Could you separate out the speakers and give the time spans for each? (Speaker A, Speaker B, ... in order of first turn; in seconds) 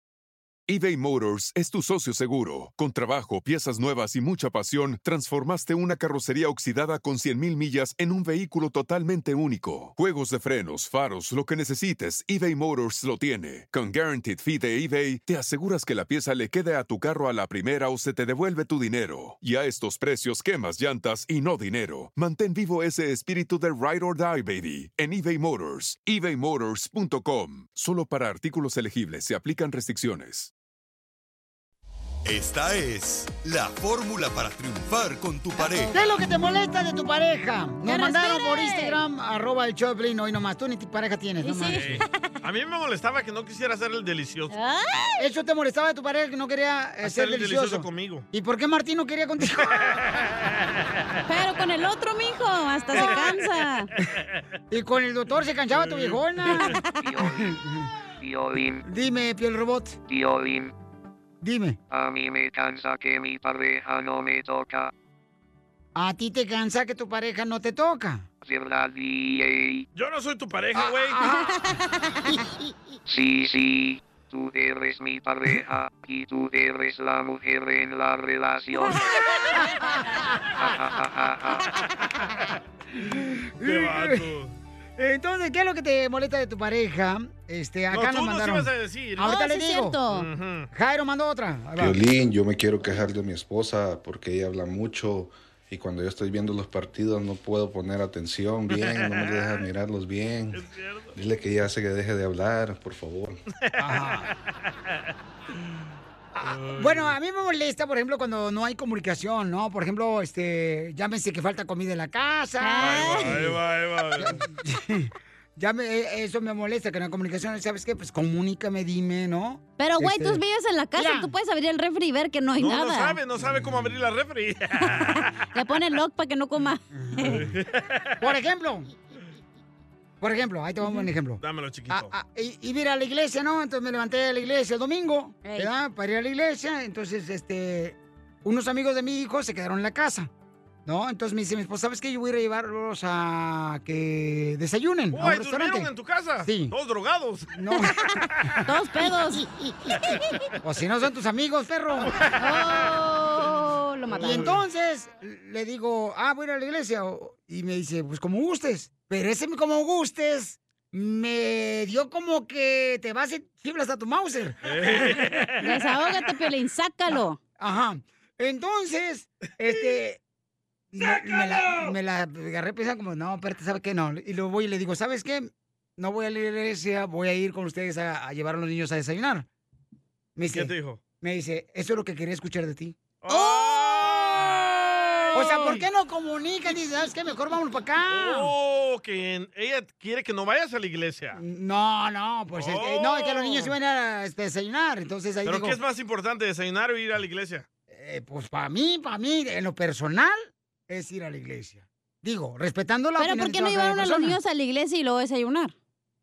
Speaker A: 0.7-30.5
Speaker B: 32.2-35.9
Speaker C: 35.6-36.1, 37.9-39.0, 41.4-42.3, 44.5-45.2, 51.3-53.9, 56.6-56.9, 89.2-90.3, 112.6-113.3, 119.8-123.2, 124.8-127.5, 135.4-135.7, 148.7-149.4, 152.4-154.5, 165.6-167.4, 183.3-184.2, 203.2-205.7
Speaker D: 35.9-41.9, 45.2-50.0, 54.7-56.8, 57.4-57.9, 58.9-60.0, 61.4-61.8, 66.0-68.3, 70.8-71.5, 83.0-84.2, 85.0-90.0, 90.7-92.0, 103.8-104.3, 106.4-113.6, 114.2-120.4, 121.0-121.3, 127.0-127.5, 128.2-128.9, 130.2-140.3, 140.9-145.9, 146.4-146.7, 147.5-148.6, 149.4-150.0, 150.6-152.2, 154.2-165.1, 167.6-170.2, 170.9-179.5, 180.4-183.0, 185.3-188.5, 191.4-195.8, 197.9-204.4
Speaker E: 41.7-44.5, 47.0-48.3, 49.7-50.5, 53.0-53.4, 54.0-54.4, 55.7-56.2, 69.9-71.3, 83.6-84.5, 87.9-89.3, 90.1-90.7, 98.7-99.6, 100.5-101.1, 103.7-104.3, 106.4-107.2, 112.8-114.4, 122.6-125.3, 127.3-128.1, 131.4-132.1, 145.1-147.5, 154.1-154.6, 164.7-165.6, 180.5-181.0, 183.2-185.9, 188.1-191.4, 192.5-193.8, 195.4-197.7
Speaker F: 57.0-57.6, 58.2-58.9, 60.1-60.7, 61.9-64.9, 68.4-69.8, 73.1-79.1, 80.6-81.8
Speaker G: 91.8-100.6, 101.2-103.4